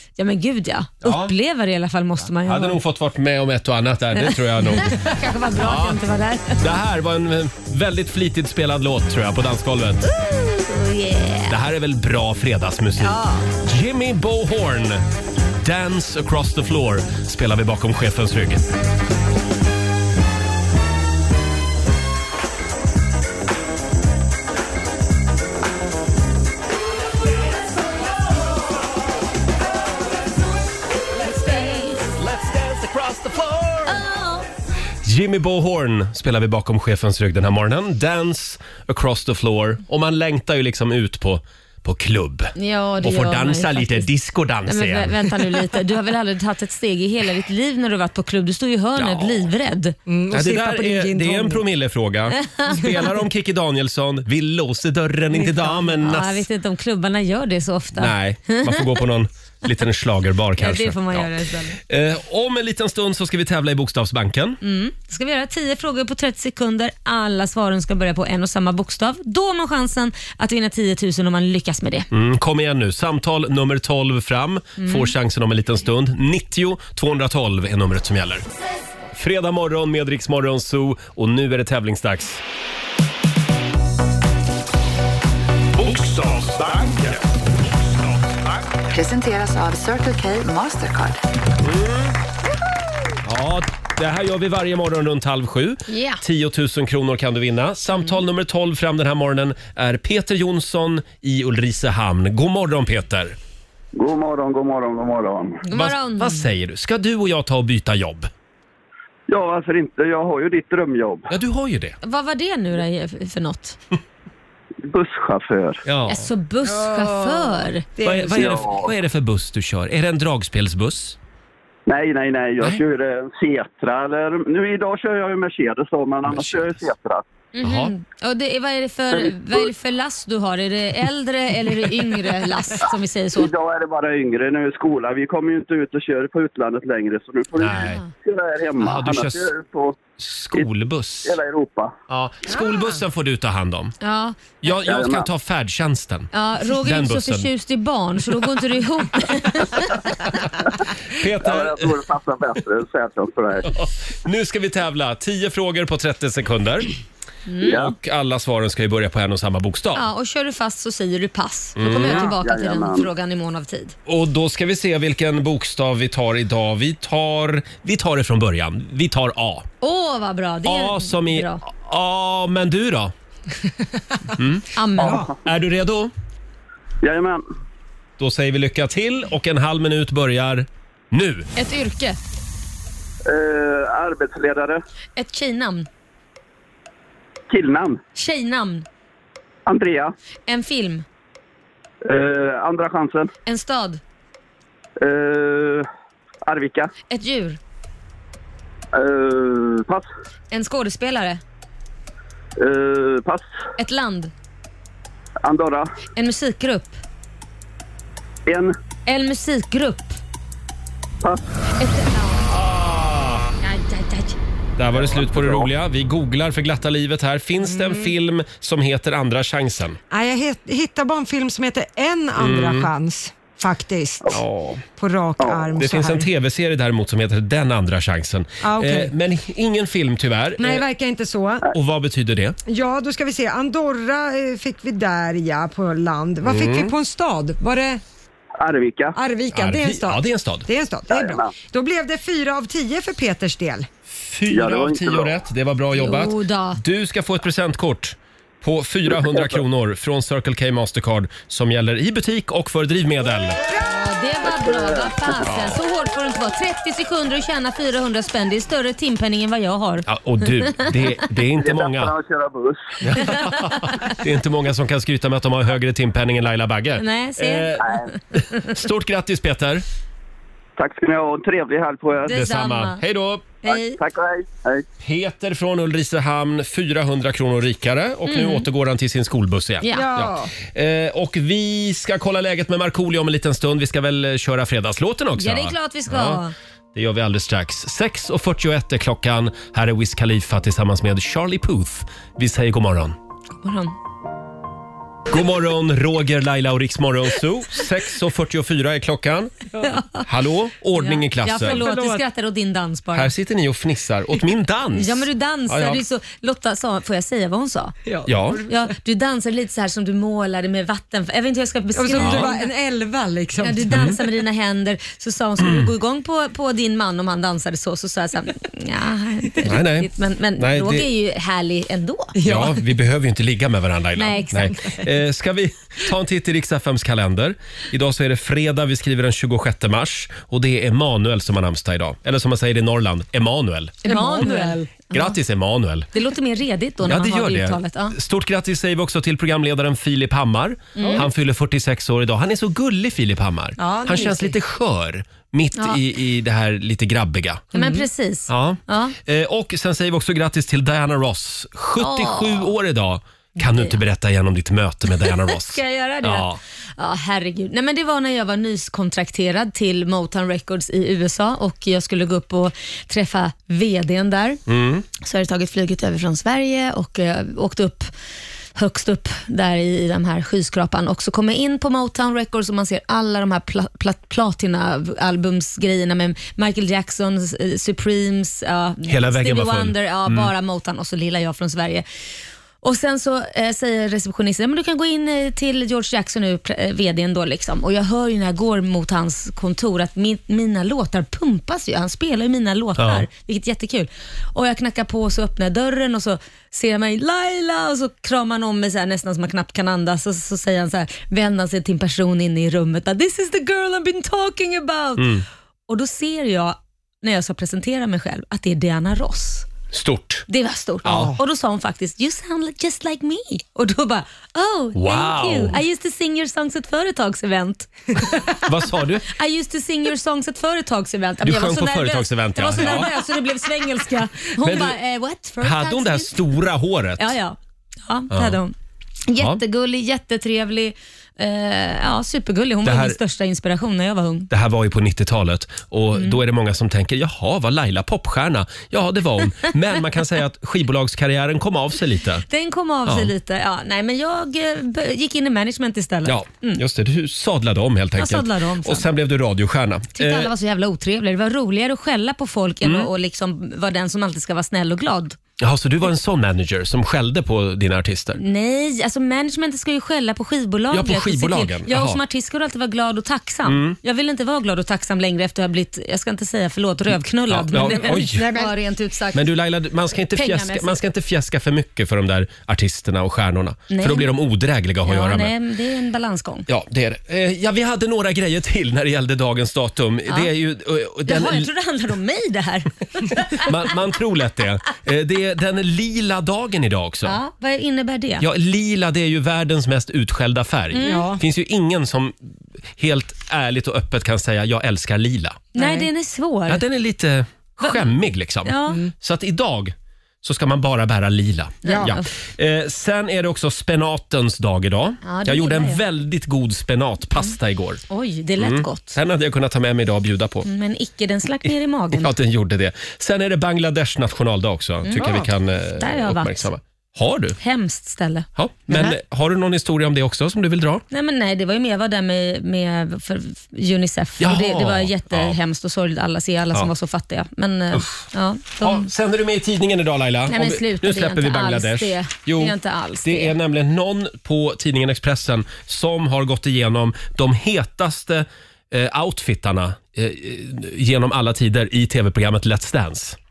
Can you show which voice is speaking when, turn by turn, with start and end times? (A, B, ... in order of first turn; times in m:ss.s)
0:00.2-0:02.8 A
0:01.0-0:01.3 B
0:02.4-0:06.0 B
0:04.7-0:06.6 A
0:06.6-0:10.0 B
0:10.0-0:11.6 A
0:11.5-0:15.0 B
0:13.0-0:13.5 A
0:15.6-0:18.6 B
0:31.3-0:32.0 A
0:31.5-0:34.0 B
0:33.8-0:34.4 A
0:35.0-0:45.5 B
0:42.6-0:44.1 A
0:44.7-0:49.9 A
0:49.0-0:49.5 B
0:50.0-0:51.6 C
0:50.3-0:56.4 B
0:52.4-0:52.9 A
0:55.3-0:56.0 C
0:56.0-0:58.8 A
0:58.0-1:04.6 B
1:00.6-1:01.7 A
1:04.6-1:12.1 A
1:12.1-1:18.4 B
1:14.8-1:15.1 A
1:19.1-1:22.4 B
1:25.8-1:28.8 D
1:28.9-1:31.2 E
1:31.6-1:32.1 B
1:33.2-1:43.4 B
1:35.9-1:36.2 A
1:43.9-1:45.6 F
1:45.6-1:46.4 A
1:45.7-1:48.3 B
1:49.3-1:51.3 F
1:51.3-1:52.0 B
1:52.0-1:53.8 A
1:54.8-1:55.8 F
1:55.8-1:56.3 B
1:56.1-1:57.9 A
1:56.6-1:58.6 C
1:58.0-2:01.2 B
1:58.3-1:58.9 F
2:01.9-2:07.2 F
2:06.3-2:06.8 B
2:07.5-2:13.5 A
2:07.6-2:07.9 B
2:09.2-2:09.6 F
2:13.4-2:20.0 F
2:17.6-2:18.0 B
2:17.8-2:18.1 A
2:18.8-2:19.5 B
2:20.2-2:21.4 B
2:21.2-2:21.9 F
2:22.1-2:23.9 B
2:24.0-2:24.5 A
2:24.6-2:27.5 B
2:24.8-2:25.3 F
2:26.3-2:30.0 A
2:31.1-2:32.0 B
2:31.4-2:33.7 F
2:33.6-2:36.9 B
2:37.5-2:37.8 A
2:37.6-2:37.9 F
2:37.7-2:40.0 B
2:39.9-2:43.9 A
2:41.8-2:42.3 B
2:41.9-2:43.1 F
2:44.0-2:49.7 B
2:49.8-2:51.6 A
2:50.6-2:53.1 B
2:54.4-2:54.7 B
2:54.7-2:55.2 A
2:55.0-2:55.2 C
2:55.0-2:55.4 F
2:55.4-2:56.1 B
2:57.0-2:57.4 F
2:58.2-3:01.5 B
3:01.5-3:02.2 A
3:03.2-3:04.8 F
3:05.2-3:05.9 A
3:07.5-3:08.0 F
3:08.1-3:08.8 A
3:09.6-3:10.1 F
3:10.5-3:11.0 A
3:12.0-3:13.3 F
3:13.4-3:14.0 A
3:15.0-3:15.9 F
3:16.4-3:16.9 F
3:17.1-3:17.6 A
3:18.9-3:20.1 F
3:20.5-3:21.4 A
3:22.6-3:23.4 F
3:23.8-3:24.3 A
3:25.4-3:25.9 F
3:26.2-3:27.0 A
3:28.5-3:28.7 F
3:29.0-3:30.2 A
3:31.8-3:32.4 A
3:32.5-3:33.5 B
3:33.6-3:34.4 A
3:34.8-3:40.0 B
3:34.9-3:35.7 F
3:37.6-3:38.1 C
3:40.1-3:44.4 C
3:42.4-3:42.9 B
3:44.3-3:44.7 B
3:45.0-3:46.3 C
3:45.4-3:45.6 F
3:45.8-3:50.8 B
3:48.6-3:49.1 C
3:50.6-3:51.7 C
3:51.7-3:52.6 B
3:52.7-3:58.0 C
3:56.4-3:56.9 B
3:58.6-3:59.2 F
3:59.2-4:03.9 C
3:59.5-4:00.7 B
4:01.1-4:01.5 F
4:04.1-4:13.6 B
4:04.5-4:05.3 F
4:05.9-4:06.8 A
4:09.2-4:09.6 F
4:13.8-4:20.0 A
4:14.5-4:15.1 F
4:15.4-4:15.8 B
4:20.1-4:22.1 B
4:21.6-4:23.0 F
4:23.0-4:29.8 B
4:23.2-4:24.1 A
4:27.0-4:28.6 A
4:30.8-4:32.4 F
4:32.3-4:33.0 A
4:32.3-4:33.5 B
4:33.6-4:34.0 A
4:33.7-4:34.8 F
4:35.0-4:46.4 B
4:38.3-4:38.6 A
4:39.8-4:40.1 A
4:39.9-4:40.5 C
4:45.4-4:46.5 A
4:46.9-4:53.2 B
4:53.6-4:53.9 A
4:55.3-4:59.6 B
4:59.8-5:00.2 A
5:00.2-5:01.8 B
5:01.0-5:03.3 A
5:01.6-5:02.2 C
5:03.1-5:06.0 B
5:04.9-5:08.0 A
5:08.0-5:08.6 C
5:08.2-5:08.6 B
5:08.6-5:12.7 A
5:11.9-5:14.1 C
5:12.2-5:12.5 B
5:13.6-5:22.4 A
5:13.9-5:14.2 B
5:15.6-5:15.9 B
5:19.6-5:21.1 B
5:22.3-5:22.8 C
5:22.4-5:34.0 B
5:24.2-5:24.7 A
5:34.0-5:34.9 C
5:34.0-5:35.3 A
5:35.1-5:36.1 B
5:36.1-5:38.1 A
5:37.0-5:47.7 B
5:41.0-5:41.2 A
5:41.0-5:41.2 C
5:43.8-5:44.4 A
5:43.8-5:44.5 C
5:47.7-5:49.2 A
5:47.7-5:48.0 C
5:48.5-5:56.6 B
5:52.0-5:52.7 A
5:53.6-5:54.0 A
5:55.2-5:56.4 A
5:57.0-6:04.6 A
6:04.7-6:05.0 B
6:05.2-6:08.1 A
6:08.8-6:22.0 A
6:19.1-6:20.5 B
6:22.8-6:45.3 A
6:33.0-6:33.3 B
6:45.2-6:45.4 B
6:45.9-6:49.7 A
6:49.9-6:50.4 B
6:50.5-6:58.2 A
6:51.0-6:51.4 B
6:51.0-6:51.4 C
6:54.9-6:55.8 B
6:58.6-6:59.3 B
6:59.2-7:06.4 A
7:01.4-7:03.1 B
7:04.6-7:05.0 B
7:05.6-7:07.4 B
7:07.2-7:08.7 A
7:08.3-7:08.6 B
7:09.3-7:14.5 A
7:12.8-7:13.2 B
7:14.5-7:22.4 B
7:22.5-7:26.8 A
7:23.1-7:23.3 B
7:26.2-7:30.5 B
7:28.2-7:29.0 A
7:30.2-7:35.4 A
7:32.8-7:33.1 B
7:35.6-7:38.4 B
7:38.4-7:49.5 A
7:40.9-7:42.2 B
7:43.6-7:44.0 B
7:47.5-7:48.6 B
7:47.9-7:48.7 C
7:49.3-7:55.5 B
7:50.3-7:51.0 A
7:53.9-7:54.3 A
7:55.0-7:56.7 A
7:56.7-8:01.7 B
8:01.3-8:03.7 A
8:03.5-8:07.4 B
8:07.2-8:08.4 A
8:08.4-8:12.4 B
8:10.9-8:11.3 A
8:11.0-8:11.4 C
8:13.0-8:15.6 B
8:15.7-8:16.8 A
8:15.8-8:16.1 C
8:16.7-8:28.0 B
8:17.8-8:18.1 A
8:18.6-8:19.0 A
8:21.8-8:22.3 A
8:21.8-8:22.2 C
8:25.2-8:26.0 A
8:28.1-8:29.2 A
8:28.6-8:30.7 B
8:30.6-8:32.3 A
8:32.1-8:37.6 B
8:35.0-8:35.4 A
8:35.2-8:35.5 C
8:36.0-8:36.7 A
8:37.6-8:39.1 A
8:38.6-8:41.0 B
8:41.1-8:49.1 A
8:44.4-8:45.6 B
8:47.9-8:48.3 B
8:48.8-9:03.4 B
8:50.5-8:53.5 A